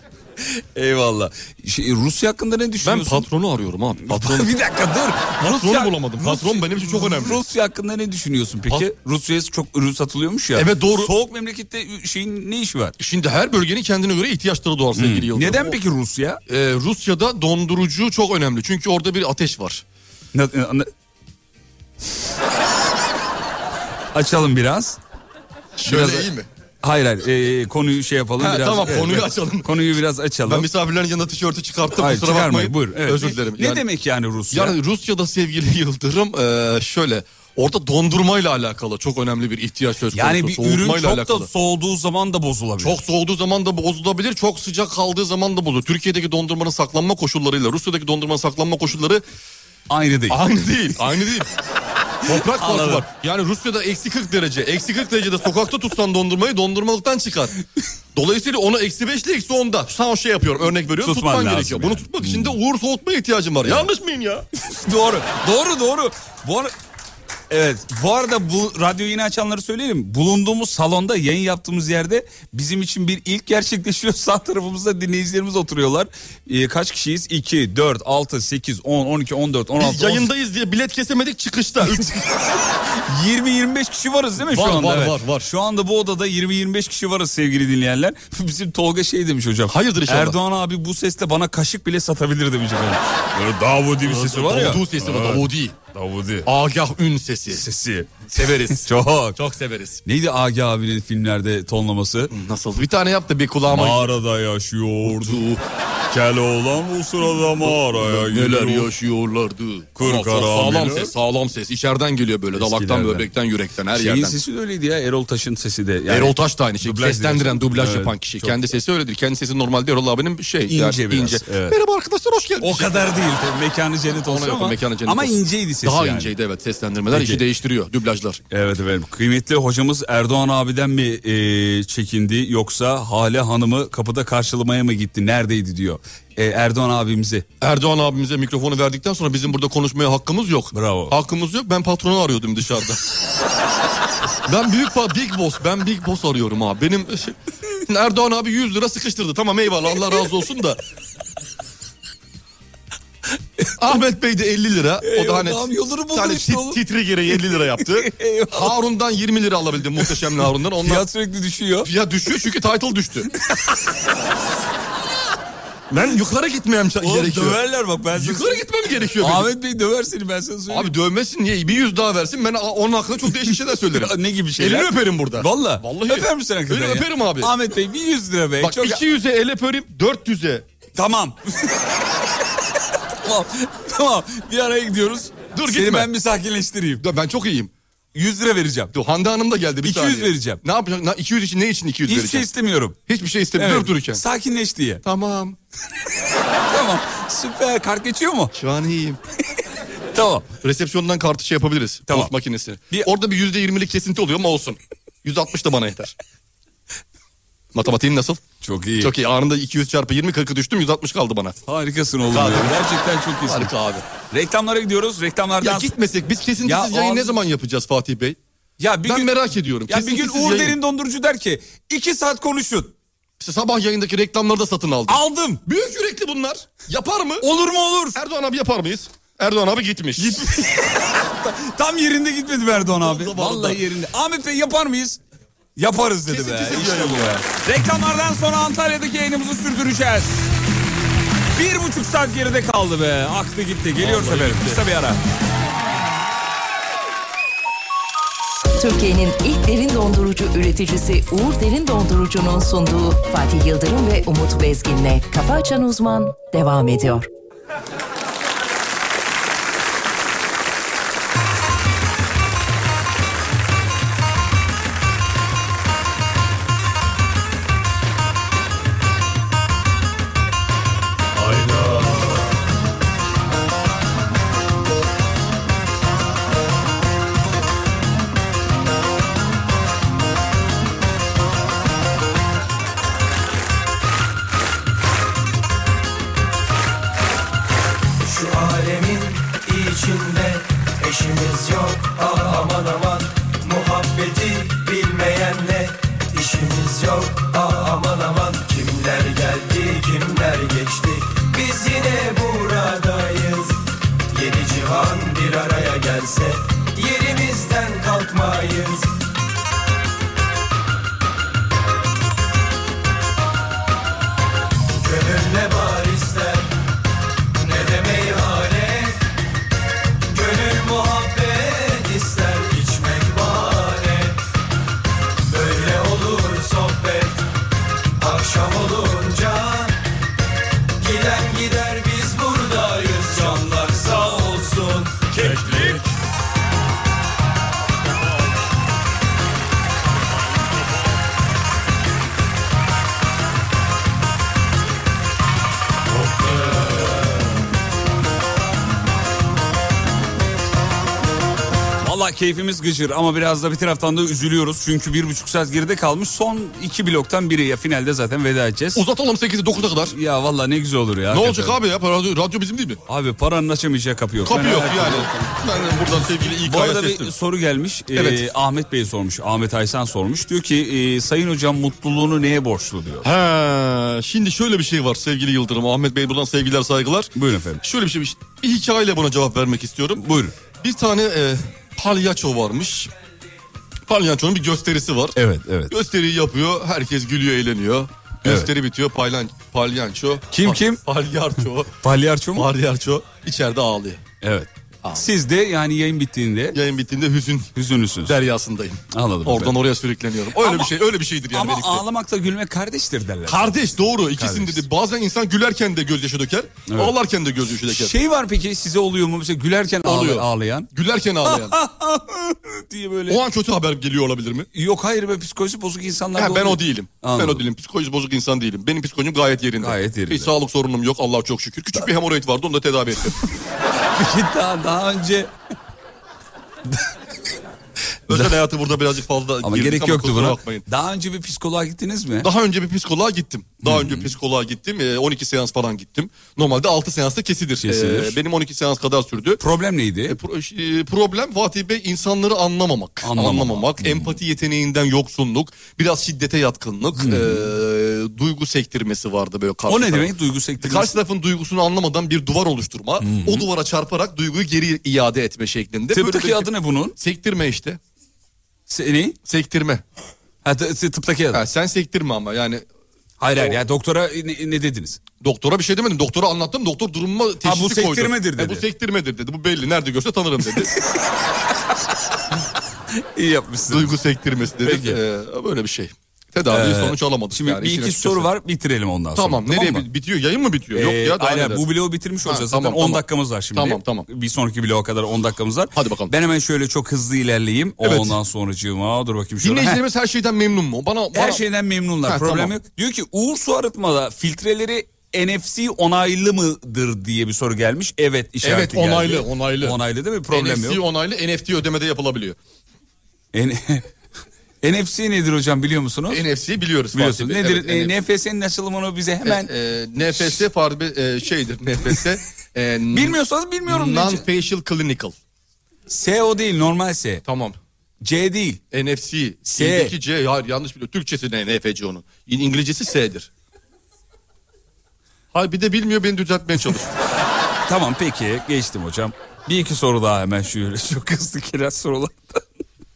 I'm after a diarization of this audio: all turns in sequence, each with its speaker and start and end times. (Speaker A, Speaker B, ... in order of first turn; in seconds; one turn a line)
Speaker A: 0.4-3.3
Speaker B: 2.8-4.5
Speaker A: 4.0-13.0
Speaker B: 5.4-7.5
Speaker B: 10.6-11.1
Speaker B: 13.0-15.8
Speaker A: 14.9-16.4
Speaker B: 16.5-19.8
Speaker A: 20.3-20.9
Speaker A: 24.1-25.0
Speaker B: 25.8-26.5
Speaker A: 25.8-26.3
Speaker A: 26.8-30.7
Speaker B: 28.4-29.9
Speaker B: 30.5-33.9
Speaker A: 31.9-34.8
Speaker B: 34.5-41.5
Speaker A: 40.1-43.0
Speaker B: 42.8-49.2
Speaker A: 49.9-50.4
Speaker B: 50.3-51.5
Speaker B: 52.2-57.6
Speaker A: 52.3-53.1
Speaker B: 58.1-64.5
Speaker A: 61.0-62.6
Speaker A: 64.7-66.7
Speaker A: 67.5-80.3
Speaker B: 79.8-82.1
Speaker A: 81.8-96.5
Speaker B: 84.4-85.5
Speaker B: 89.7-90.4
Speaker B: 94.0-95.8
Speaker B: 96.5-97.7
Speaker A: 97.5-99.4
Speaker B: 98.3-100.0
Speaker A: 100.0-102.3
Speaker B: 102.3-104.1
Speaker A: 103.7-105.4
Speaker B: 105.0-105.6
Speaker A: 106.1-108.9
Speaker B: 107.6-114.4
Speaker A: 110.0-111.1
Speaker A: 112.6-113.3
Speaker A: 113.9-118.7
Speaker B: 116.1-123.3
Speaker A: 120.7-121.8
Speaker A: 122.6-126.3
Speaker B: 124.1-128.4
Speaker A: 127.1-127.4
Speaker A: 128.5-137.5
Speaker B: 137.6-143.0
Speaker A: 140.7-141.2
Speaker B: 144.5-147.4
Speaker B: 147.9-150.8
Speaker B: 153.8-161.1
Speaker A: 155.0-156.8
Speaker A: 157.4-158.8
Speaker A: 160.8-161.9
Speaker B: 161.8-163.3
Speaker A: 163.4-163.8
Speaker B: 165.9-167.6
Speaker A: 167.0-168.6
Speaker B: 168.1-169.5
Speaker A: 169.2-170.9
Speaker B: 170.7-177.5
Speaker A: 173.9-179.0
Speaker B: 178.6-180.7
Speaker A: 181.0-181.9
Speaker A: 183.2-187.1
Speaker B: 185.5-186.1
Speaker B: 187.0-187.7
Speaker A: 188.2-188.9
Speaker B: 188.9-192.5
Speaker A: 189.8-190.6
Speaker A: 192.1-193.0
Speaker B: 193.1-194.2
Speaker A: 193.6-195.0
Speaker B: 195.0-195.6
Speaker A: 196.7-198.5
Speaker B: 198.5-199.2
Speaker A: 200.1-200.5
Speaker B: 200.5-206.2
Speaker A: 202.1-202.3
Speaker B: 207.7-208.4
Speaker A: 208.6-209.1
Speaker B: 209.0-211.6
Speaker A: 211.7-213.7
Speaker B: 212.3-212.9
Speaker B: 213.4-214.1
Speaker A: 214.3-215.9
Speaker B: 215.6-218.4
Speaker A: 216.6-217.4
Speaker A: 218.8-222.9
Speaker B: 219.0-220.8
Speaker B: 223.4-227.5
Speaker A: 225.1-225.6
Speaker A: 227.4-228.2
Speaker B: 228.2-230.4
Speaker A: 230.2-235.2
Speaker B: 232.9-233.8
Speaker A: 235.8-240.4
Speaker B: 236.3-237.4
Speaker A: 241.5-245.2
Speaker B: 243.9-244.9
Speaker C: 248.8-257.3
Speaker A: 271.6-272.2
Speaker D: 288.2-309.1
Speaker D: 314.9-316.8
Speaker D: 317.6-319.2
Speaker D: 320.2-324.4
Speaker D: 325.4-327.5
Speaker D: 328.2-330.0
Speaker D: 331.0-335.9
Speaker A: 335.4-336.1
Speaker B: 335.4-336.0
Speaker A: 352.0-359.1
Speaker B: 358.9-360.2
Speaker A: 360.1-361.8
Speaker B: 361.3-363.0
Speaker A: 363.1-365.6
Speaker B: 364.4-367.3
Speaker A: 366.6-373.3
Speaker B: 368.1-368.5
Speaker B: 373.2-383.1
Speaker A: 377.4-377.8
Speaker A: 380.2-380.6
Speaker B: 384.1-392.0
Speaker A: 385.4-385.9
Speaker A: 388.4-388.7
Speaker A: 390.5-391.0
Speaker A: 392.0-392.7
Speaker B: 392.5-394.2
Speaker A: 394.4-396.8
Speaker B: 396.7-397.7
Speaker A: 397.8-398.4
Speaker B: 398.2-402.0
Speaker A: 399.1-399.8
Speaker A: 400.6-400.9
Speaker A: 401.5-404.9
Speaker B: 403.5-408.2
Speaker A: 406.9-407.1
Speaker A: 407.9-410.9
Speaker B: 410.0-411.8
Speaker A: 411.4-413.4
Speaker B: 413.3-414.7
Speaker A: 414.7-417.6
Speaker B: 416.4-423.4
Speaker A: 419.8-420.5
Speaker A: 424.1-425.5
Speaker B: 428.3-430.9
Speaker A: 429.6-432.5
Speaker B: 432.4-439.6
Speaker A: 433.8-434.3
Speaker A: 437.8-438.4
Speaker A: 439.6-440.4
Speaker B: 440.3-458.0
Speaker A: 443.2-444.4
Speaker A: 447.2-447.7
Speaker A: 449.9-451.1
Speaker A: 453.2-453.7
Speaker A: 456.1-457.2
Speaker A: 458.9-459.4
Speaker B: 459.4-460.0
Speaker A: 460.6-461.6
Speaker B: 461.5-462.9
Speaker A: 463.4-465.2
Speaker B: 465.4-470.9
Speaker A: 467.6-468.9
Speaker A: 471.0-471.2
Speaker A: 473.4-474.2
Speaker B: 473.9-478.5
Speaker A: 474.8-475.2
Speaker A: 476.7-480.1
Speaker B: 479.4-481.9
Speaker A: 480.9-490.0
Speaker B: 482.4-484.3
Speaker B: 485.9-486.3
Speaker B: 488.0-488.4
Speaker B: 489.6-491.6
Speaker A: 491.3-501.0
Speaker B: 492.2-492.8
Speaker B: 498.6-502.6
Speaker A: 503.5-504.1
Speaker A: 504.8-506.4
Speaker B: 506.3-508.2
Speaker A: 507.1-509.7
Speaker B: 509.4-515.4
Speaker A: 513.1-514.5
Speaker A: 516.1-517.4
Speaker B: 517.5-517.8
Speaker A: 518.2-518.8
Speaker B: 518.9-523.5
Speaker A: 519.7-520.1
Speaker B: 525.5-527.1
Speaker A: 527.9-532.6